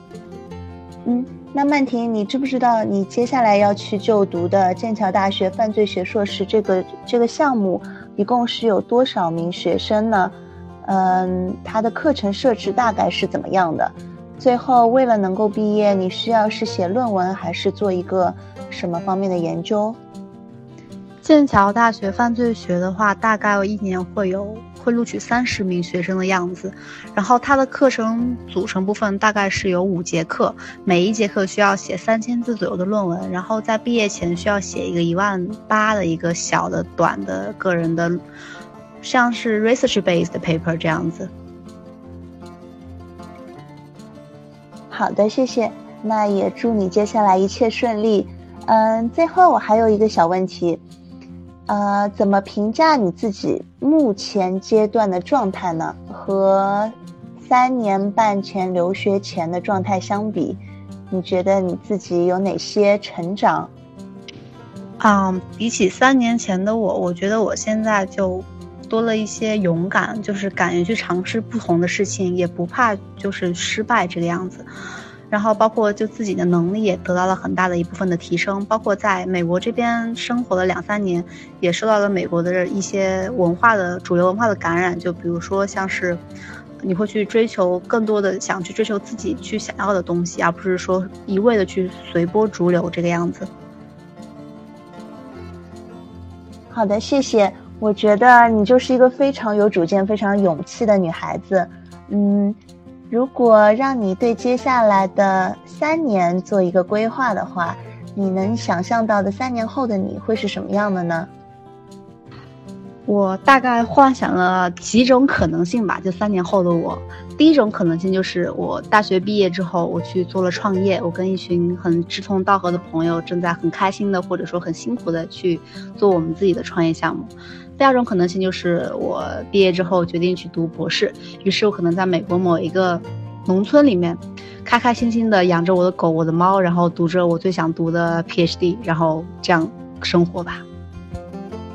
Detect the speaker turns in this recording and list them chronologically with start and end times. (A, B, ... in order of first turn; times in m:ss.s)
0:01.0-0:20.0 A
0:21.2-0:38.2 B
0:39.0-0:41.3 B
0:44.9-0:50.8 A
0:51.7-1:03.7 A
1:05.0-1:14.7 B
1:15.3-1:26.2 B
1:26.8-1:33.5 B
1:36.7-1:42.6 A
1:43.1-1:51.3 A
1:53.0-2:20.6 B